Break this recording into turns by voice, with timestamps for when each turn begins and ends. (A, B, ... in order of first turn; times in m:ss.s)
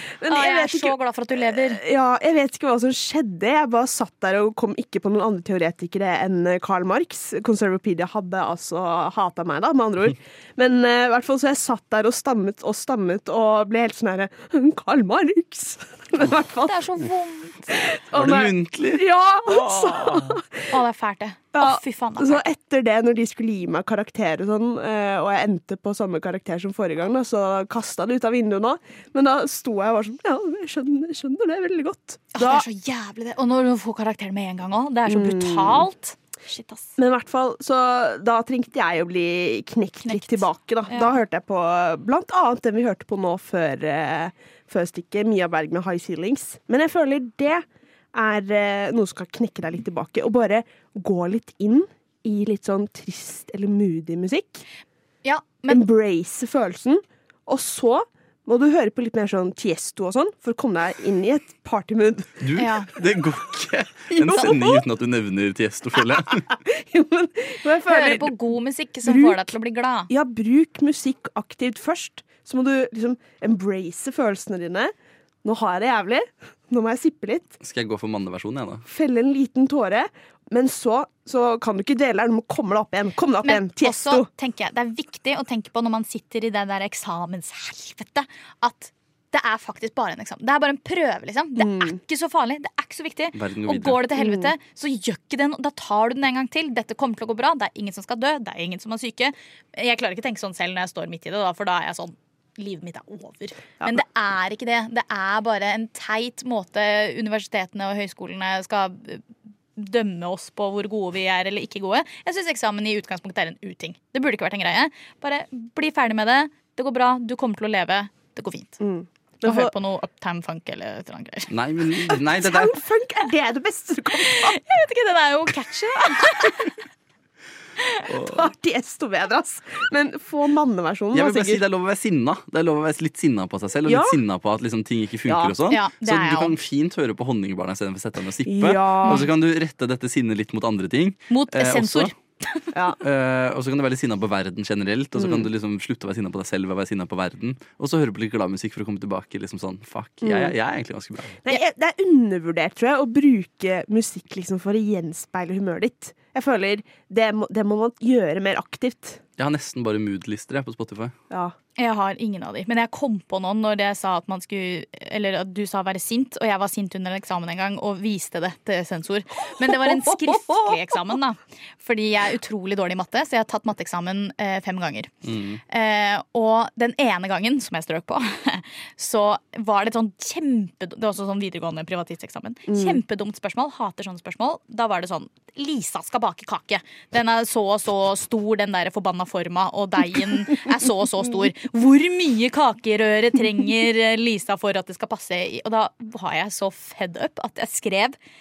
0:00.2-0:17.1 A
0:00.3-0:01.8 B
0:16.6-0:17.9 B
0:17.7-0:20.7 A
0:18.1-0:20.4 C
0:20.7-0:22.4 B
0:21.5-0:32.7 A
0:32.4-0:37.0 B
0:35.1-0:35.9 A
0:37.0-0:54.6 A
0:40.0-0:41.2 B
0:55.2-0:55.8 B
0:55.7-1:02.5 A
1:02.4-1:06.5 C
1:02.6-1:02.9 B
1:04.1-1:04.8 A
1:06.0-1:09.5 A
1:07.9-1:10.1 B
1:10.1-1:14.9 A
1:15.4-1:17.6 A
1:17.6-1:18.8 C
1:18.8-1:24.3 A
1:23.4-1:49.2 B
1:31.6-1:32.0 A
1:33.4-1:34.0 C
1:34.2-1:34.5 A
1:49.8-1:58.8 B
1:58.8-1:59.7 A
1:59.4-2:01.5 B
2:01.5-2:02.8 C
2:02.3-2:04.6 A
2:04.2-2:06.7 B
2:08.1-2:08.4 C
2:08.2-2:11.6 A
2:11.1-2:22.1 C
2:13.8-2:14.2 A
2:15.3-2:15.6 A
2:15.7-2:16.6 B
2:18.4-2:19.3 A
2:21.3-2:22.6 B
2:22.7-2:23.0 A
2:23.0-2:31.4 C
2:25.2-2:25.5 A
2:30.2-2:30.6 A
2:31.4-2:39.2 A
2:39.4-2:41.2 C
2:41.3-2:41.6 A
2:41.8-2:55.1 B
2:49.6-2:50.8 A
2:55.2-2:55.6 C
2:55.7-3:18.2 B
3:02.7-3:03.0 A